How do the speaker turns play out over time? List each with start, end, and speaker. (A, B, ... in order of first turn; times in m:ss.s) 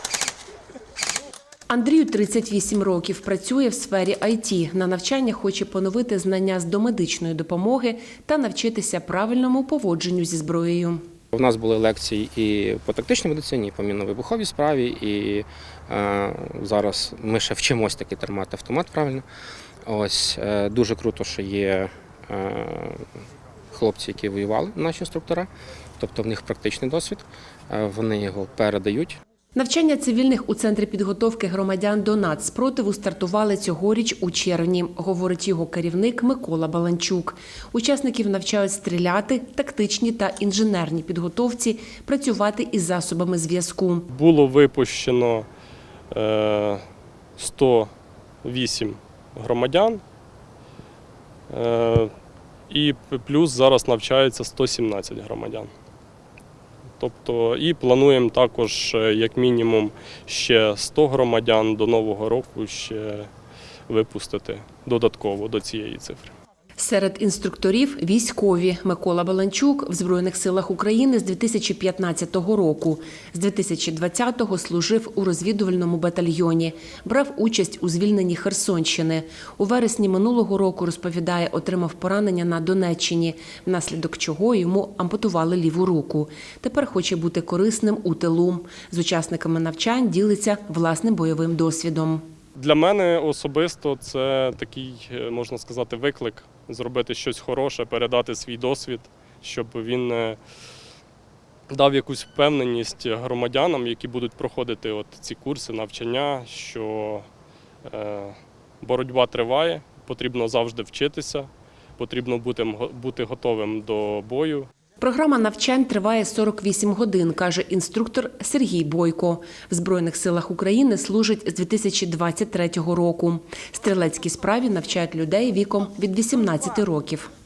0:01.7-0:11.0 A
0:11.3-0:19.2 B
0:19.9-0:23.0 B
0:23.7-0:29.2 B
0:29.6-0:44.1 A
0:44.1-0:45.4 C
0:46.1-0:46.8 C
0:47.4-0:47.9 C
0:48.4-0:50.0 C
0:51.5-0:52.1 C
0:52.7-0:55.7 C
0:57.0-1:03.3 C
1:03.9-1:06.3 C
1:06.8-1:32.2 A
1:32.6-1:40.4 C
1:41.7-1:47.2 C
1:47.8-1:54.7 C
1:55.0-2:07.3 A